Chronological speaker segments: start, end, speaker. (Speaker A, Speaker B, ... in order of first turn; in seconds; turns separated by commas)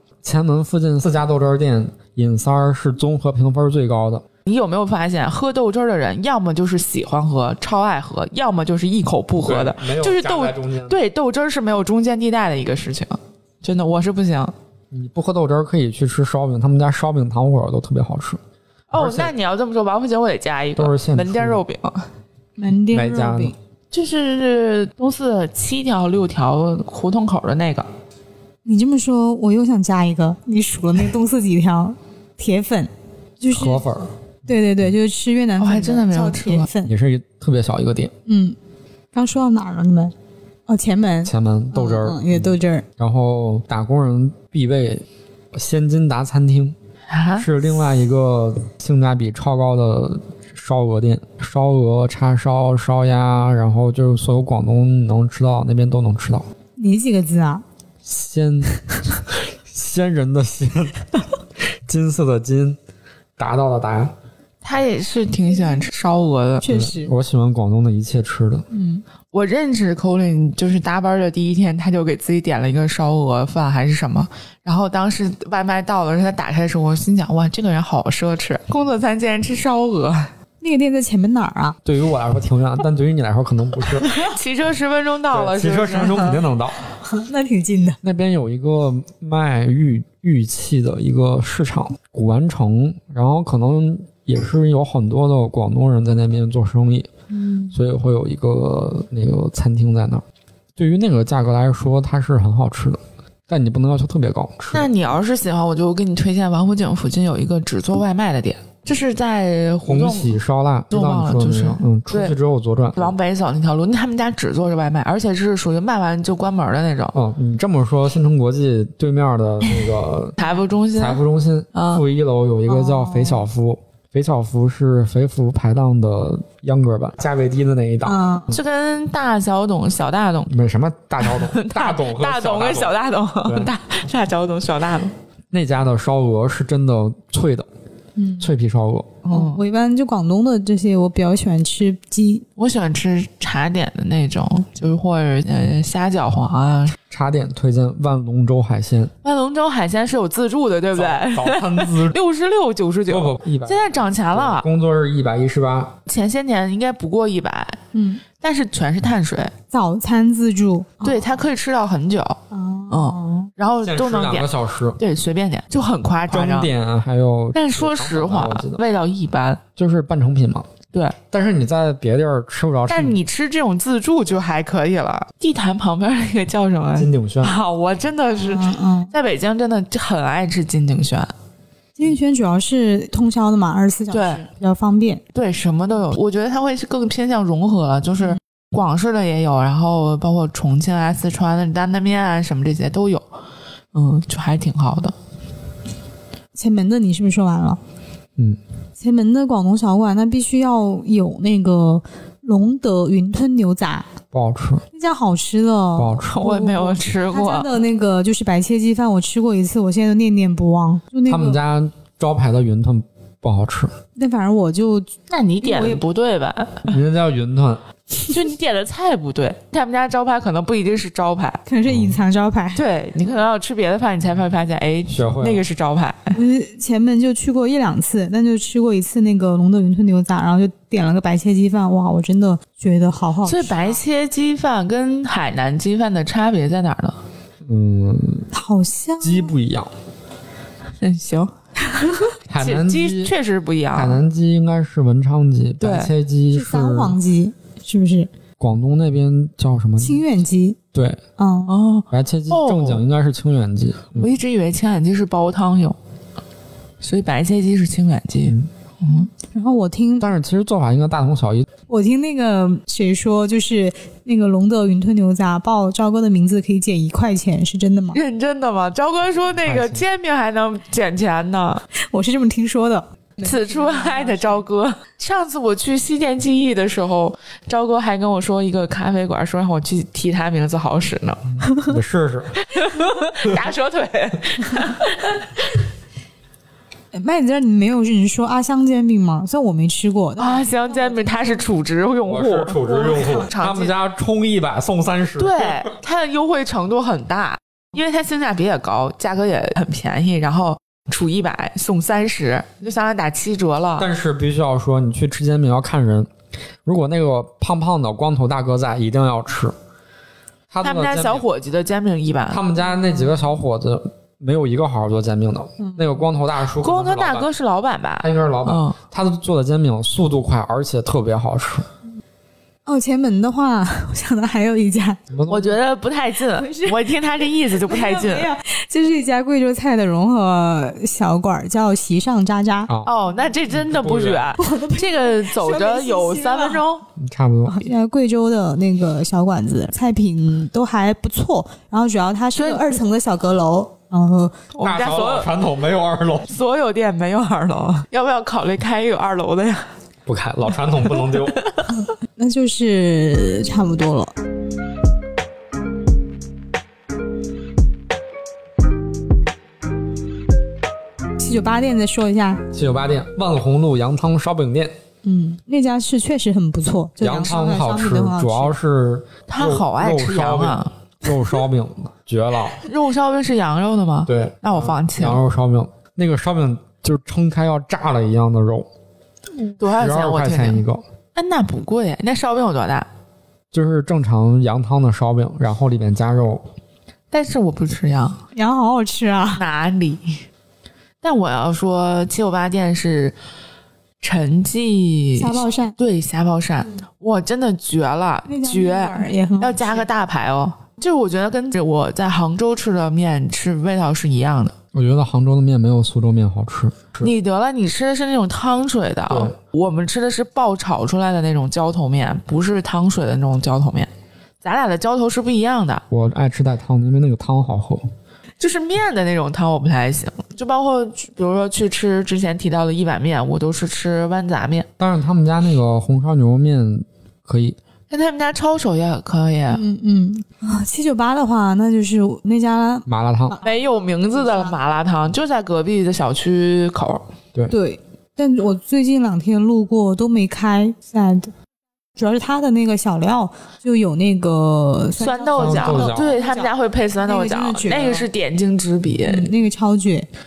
Speaker A: 0.2-4.2, Speaker B: 4.5-14.5, Speaker A: 9.4-11.0, Speaker A: 14.9-18.4, Speaker B: 18.9-22.1, Speaker A: 18.9-19.3, Speaker A: 20.8-21.6, Speaker C: 22.6-23.5, Speaker A: 22.9-23.5, Speaker B: 23.9-27.9, Speaker C: 28.6-33.9, Speaker A: 33.5-34.1, Speaker C: 34.5-36.9, Speaker B: 35.6-36.7, Speaker A: 36.8-38.1, Speaker C: 38.2-38.6, Speaker C: 39.1-40.1, Speaker C: 40.7-42.9, Speaker A: 41.2-46.8, Speaker B: 47.1-47.5, Speaker A: 47.4-56.5, Speaker C: 56.8-57.6, Speaker A: 58.0-58.7, Speaker A: 59.6-61.1, Speaker A: 61.6-62.8, Speaker A: 63.4-64.1, Speaker B: 64.6-66.7, Speaker C: 66.6-67.1, Speaker A: 66.7-68.7, Speaker C: 68.7-69.0, Speaker B: 69.3-80.3, Speaker C: 80.6-81.8, Speaker A: 81.8-84.1, Speaker B: 84.2-86.4, Speaker A: 85.3-86.8, Speaker C: 87.1-88.0, Speaker A: 88.0-97.1, Speaker C: 97.3-97.7, Speaker A: 97.7-100.2, Speaker A: 100.8-104.9, Speaker B: 104.7-110.4, Speaker A: 109.8-113.2, Speaker B: 110.9-112.3, Speaker B: 113.0-117.2, Speaker A: 117.1-120.4, Speaker B: 120.4-121.2, Speaker A: 121.0-128.6, Speaker B: 121.7-122.0, Speaker C: 122.7-123.4, Speaker C: 128.0-128.5, Speaker B: 128.5-130.5, Speaker A: 130.5-133.7, Speaker B: 131.2-135.1, Speaker A: 135.5-137.7, Speaker C: 138.2-138.5, Speaker A: 138.4-139.2, Speaker B: 139.2-139.6, Speaker C: 139.3-142.4, Speaker B: 142.6-147.0, Speaker A: 147.1-149.1, Speaker B: 149.2-154.7, Speaker A: 150.9-152.2, Speaker A: 153.1-155.9, Speaker B: 156.1-157.8, Speaker C: 157.9-158.2, Speaker B: 158.4-159.5, Speaker C: 159.7-161.2, Speaker B: 161.0-162.4, Speaker C: 162.5-163.5, Speaker B: 162.9-166.7, Speaker A: 163.8-165.0, Speaker A: 166.3-168.8, Speaker B: 167.5-169.6, Speaker A: 169.8-170.7, Speaker B: 170.9-171.2, Speaker A: 171.3-173.2, Speaker B: 172.9-181.3, Speaker A: 176.9-177.5, Speaker C: 178.4-179.1, Speaker C: 182.0-185.2, Speaker B: 184.1-184.5, Speaker B: 185.3-193.3, Speaker B: 193.9-195.1, Speaker C: 196.5-197.8, Speaker C: 199.0-204.1, Speaker A: 204.3-204.8, Speaker C: 204.9-211.6, Speaker A: 205.9-206.3, Speaker B: 206.2-207.7, Speaker A: 211.2-213.9, Speaker C: 214.2-216.0, Speaker B: 215.3-216.9, Speaker A: 216.9-217.8, Speaker B: 218.2-221.6, Speaker C: 221.7-222.8, Speaker A: 221.9-222.1, Speaker B: 222.7-226.4, Speaker A: 225.1-225.7, Speaker C: 226.3-234.0, Speaker B: 233.4-237.2, Speaker A: 237.6-238.5, Speaker C: 238.5-239.5, Speaker A: 239.2-239.9, Speaker B: 241.0-241.5, Speaker A: 242.5-243.3, Speaker B: 242.6-244.2, Speaker A: 243.9-247.2, Speaker B: 245.8-246.1, Speaker C: 246.5-248.3, Speaker A: 248.6-250.2, Speaker C: 250.0-250.8, Speaker A: 250.9-251.2, Speaker C: 251.4-251.8, Speaker B: 251.7-253.0, Speaker A: 252.1-254.3, Speaker B: 254.2-256.0, Speaker B: 257.0-259.3, Speaker C: 259.1-260.3, Speaker A: 260.2-261.7, Speaker C: 261.9-268.2, Speaker B: 268.1-271.8, Speaker A: 269.6-270.0, Speaker C: 272.0-274.6, Speaker B: 273.4-281.4, Speaker A: 281.6-282.6, Speaker B: 282.7-285.7, Speaker C: 287.1-291.6, Speaker B: 290.4-293.9, Speaker A: 292.2-295.9, Speaker B: 295.4-304.1, Speaker A: 304.0-306.3, Speaker A: 306.8-309.7, Speaker A: 310.7-311.4, Speaker B: 310.8-312.6, Speaker A: 312.5-317.5, Speaker C: 315.8-316.0, Speaker B: 316.8-318.9, Speaker A: 318.2-321.9, Speaker C: 322.9-325.2, Speaker A: 325.3-325.8, Speaker B: 325.5-328.5, Speaker C: 326.5-327.1, Speaker C: 327.8-332.9, Speaker A: 332.9-333.1, Speaker B: 333.0-337.1, Speaker A: 333.7-334.5, Speaker C: 334.6-336.8, Speaker A: 337.2-337.8, Speaker C: 337.7-344.6, Speaker B: 342.6-342.9, Speaker B: 344.7-345.5, Speaker A: 344.8-346.5, Speaker B: 346.5-349.9, Speaker A: 350.3-351.6, Speaker B: 351.1-351.9, Speaker C: 351.9-354.3, Speaker C: 361.4-362.6, Speaker A: 362.7-364.9, Speaker C: 365.2-368.8, Speaker A: 367.2-372.8, Speaker B: 369.5-370.9, Speaker B: 372.8-375.4, Speaker A: 374.3-378.9, Speaker B: 379.8-380.8, Speaker A: 379.9-381.0, Speaker B: 381.3-383.1, Speaker A: 383.7-386.6, Speaker B: 387.3-388.4, Speaker C: 388.5-389.6, Speaker B: 389.6-390.4, Speaker B: 391.2-393.4, Speaker B: 394.2-404.8, Speaker C: 395.4-395.9, Speaker C: 398.5-400.1, Speaker A: 404.9-407.3, Speaker B: 407.2-414.1, Speaker A: 409.3-409.5, Speaker B: 414.6-416.0, Speaker A: 416.1-418.1, Speaker B: 418.6-424.9, Speaker A: 425.0-427.8, Speaker B: 428.1-429.8, Speaker C: 429.7-433.6, Speaker A: 433.1-433.5, Speaker B: 433.6-437.2, Speaker C: 437.7-441.5, Speaker C: 442.2-448.3, Speaker B: 445.2-449.5, Speaker A: 445.5-446.4, Speaker C: 449.2-450.3